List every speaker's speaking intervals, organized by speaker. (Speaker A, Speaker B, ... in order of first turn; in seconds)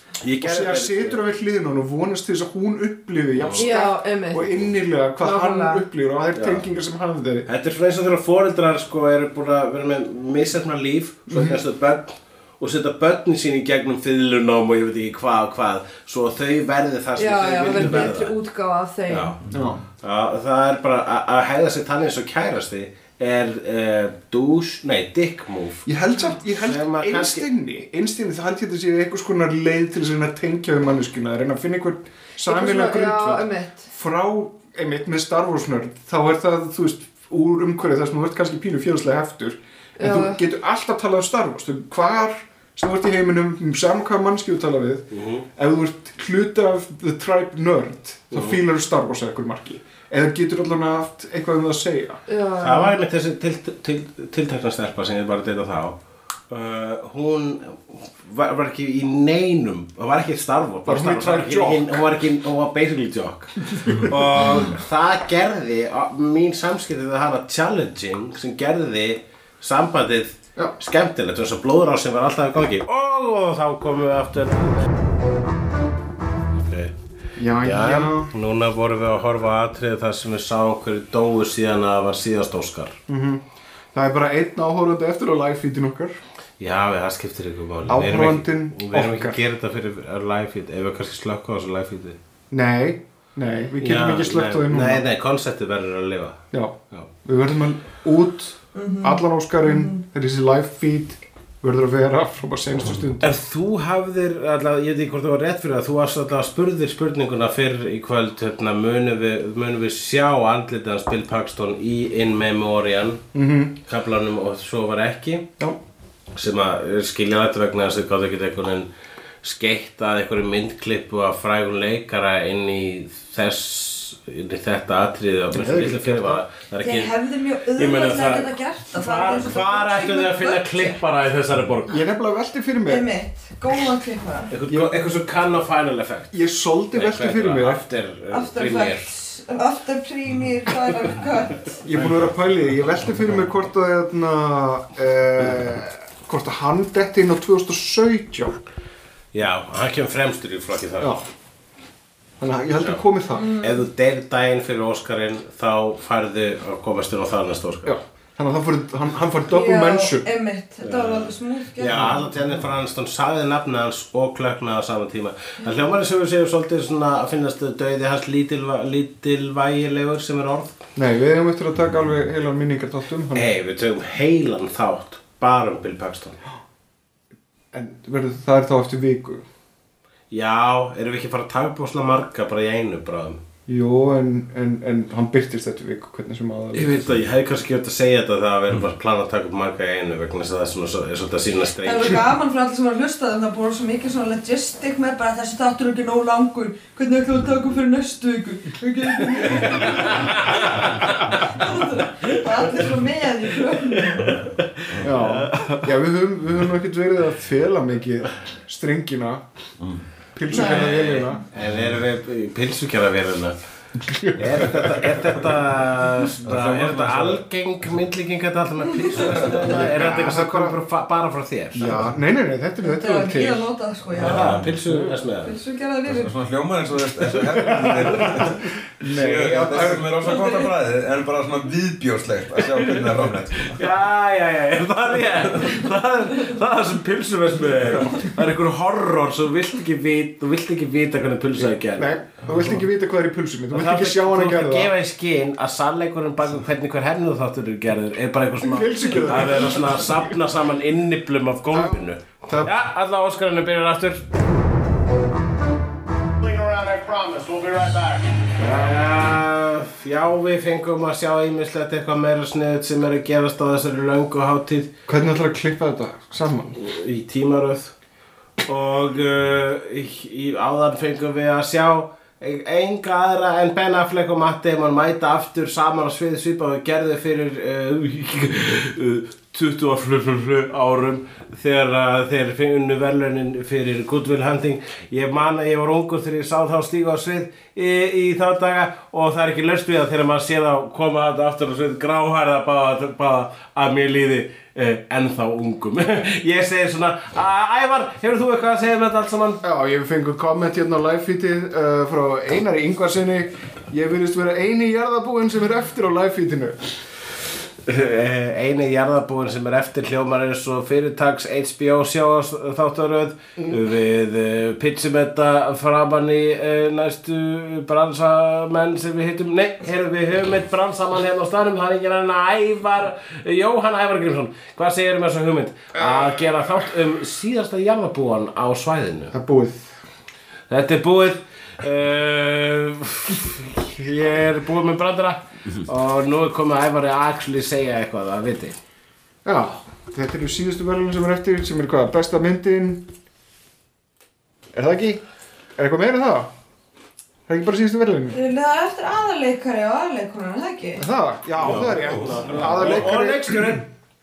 Speaker A: 0.2-1.2, 3.4-3.7, 6.3-6.7, 7.5-18.3, 19.1-19.4, 20.0-25.9, 26.6-27.5, 45.1-45.5, 48.3-48.6, 52.6-56.0, 56.5-74.9, 76.6-76.9, 77.6-83.0, 86.6-92.2, 93.8-96.4, 103.2-113.2, 113.9-115.5, 116.3-118.9, 119.4-127.1, 127.8-132.0, 134.5-136.3, 136.9-139.1, 149.3-151.2, 153.6-157.9, 160.8-170.8, 173.3-176.4, 180.3-183.4, 186.7-192.2, 199.4-201.4, 203.9-205.8, 210.5-213.6, 214.4-221.9, 224.2-225.6, 227.3-228.4, 233.7-242.1, 243.7-254.2, 258.6-264.9, 266.8-267.9, 268.7-299.6, 307.9-329.4, 330.7-338.8, 351.6-353.9
Speaker B: 0.4-7.5, 11.3-11.6, 19.5-19.8, 25.9-52.2, 60.9-62.1, 63.7-64.7, 77.4-78.3, 83.1-83.4, 83.9-86.2, 87.9-89.4, 92.5-95.1, 96.5-103.4, 113.3-113.8, 125.5-126.4, 131.9-133.1, 134.7-135.0, 136.3-137.8, 141.8-148.6, 152.4-153.5, 157.8-160.2, 171.0-173.5, 177.7-179.5, 183.7-187.1, 199.4-200.0, 205.0-209.4, 210.3-211.4, 214.0-215.0, 219.6-220.8, 221.7-223.7, 224.3-225.2, 229.0-230.3, 241.8-244.9, 248.6-250.4, 251.7-252.8, 258.7-258.9, 265.1-266.8, 299.6-306.9, 326.0-326.4, 329.3-329.9, 339.4-343.1, 344.7-345.2, 345.8-346.5, 347.5-348.4, 351.0-353.8
Speaker C: 3.6-4.5, 5.2-5.8, 17.2-19.3, 32.5-33.9, 40.0-40.4, 52.3-53.0, 98.8-100.0, 126.8-131.0, 132.9-134.5, 138.3-141.8, 153.3-153.8, 159.5-162.3, 191.8-200.5, 201.6-204.3, 210.5-211.1, 222.8-224.6, 225.4-226.3, 348.3-351.1
Speaker D: 19.4-19.8, 216.4-217.4, 219.2-219.9, 224.2-224.7, 226.1-233.9, 237.9-238.3, 242.4-242.8, 351.6-353.0
Speaker E: 256.4-258.4